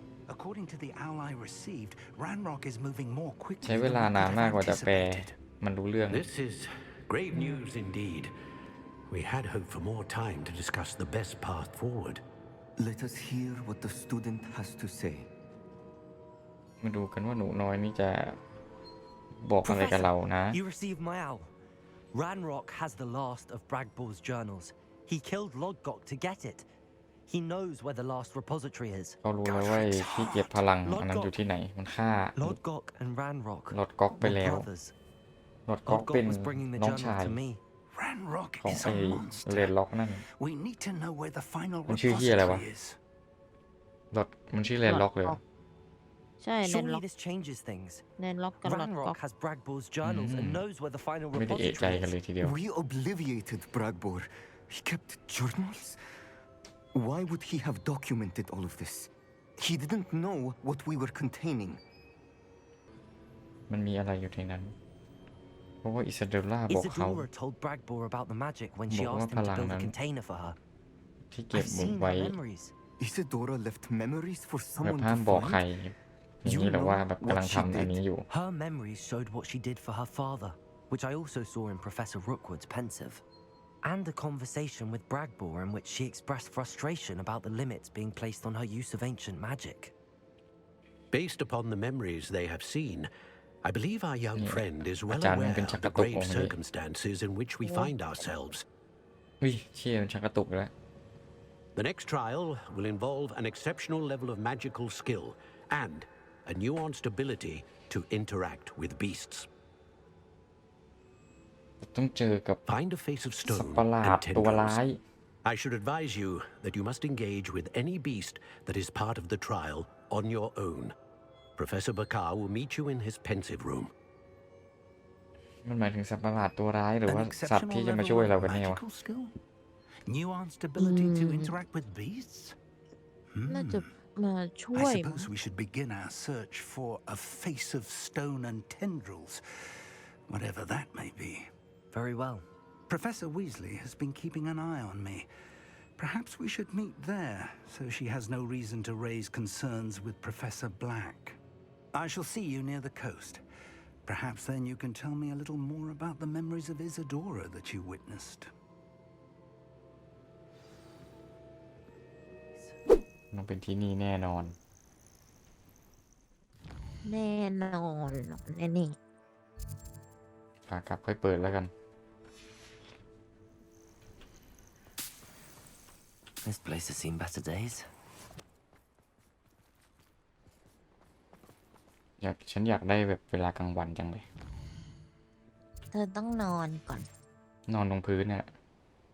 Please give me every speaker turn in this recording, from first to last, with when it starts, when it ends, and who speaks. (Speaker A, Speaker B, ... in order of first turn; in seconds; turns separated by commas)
Speaker A: 0.3-5.4, Speaker B: 3.6-6.2, Speaker C: 6.1-8.3, Speaker D: 7.3-7.6, Speaker C: 9.1-12.2, Speaker E: 12.8-15.3, Speaker B: 16.8-18.4, Speaker B: 19.3-20.6, Speaker F: 19.6-21.5, Speaker F: 22.1-26.7, Speaker F: 27.3-31.4, Speaker B: 29.2-32.6, Speaker F: 32.4-34.9, Speaker B: 33.7-34.7, Speaker B: 35.7-37.4, Speaker F: 35.9-37.6, Speaker A: 37.9-39.7, Speaker B: 38.6-40.2, Speaker A: 40.2-43.0, Speaker B: 41.9-42.6, Speaker B: 44.1-45.4, Speaker D: 44.9-45.4, Speaker D: 46.4-47.0, Speaker F: 46.6-48.0, Speaker D: 48.2-49.2, Speaker F: 48.6-52.1, Speaker B: 50.0-50.6, Speaker B: 51.3-52.5, Speaker E: 52.4-56.0, Speaker E: 56.9-61.8, Speaker B: 63.7-64.7, Speaker B: 65.8-67.3, Speaker F: 66.7-70.6, Speaker B: 68.9-69.9, Speaker B: 71.3-72.3, Speaker F: 71.5-72.7, Speaker E: 73.0-75.7, Speaker B: 74.8-78.2, Speaker E: 76.4-78.0, Speaker F: 78.3-83.2, Speaker F: 83.8-89.9, Speaker C: 91.1-93.1, Speaker C: 93.6-98.6, Speaker B: 94.3-96.5, Speaker D: 97.6-97.9, Speaker B: 99.4-100.7, Speaker C: 101.8-109.5, Speaker B: 111.8-112.6, Speaker C: 112.7-114.8, Speaker B: 113.4-115.0, Speaker C: 115.4-120.9, Speaker C: 121.6-123.9, Speaker B: 125.6-128.8, Speaker A: 127.1-129.3, Speaker A: 130.1-132.6, Speaker D: 130.8-131.5, Speaker A: 133.3-133.9, Speaker D: 133.5-135.3, Speaker A: 134.7-141.5, Speaker F: 141.9-142.4, Speaker A: 142.9-145.3, Speaker A: 146.0-151.4, Speaker A: 151.9-153.4, Speaker A: 154.0-158.5, Speaker B: 163.3-164.6, Speaker D: 167.0-168.9, Speaker B: 170.7-171.7, Speaker F: 176.4-177.9, Speaker B: 182.2-184.2, Speaker D: 185.9-187.1, Speaker B: 187.7-188.5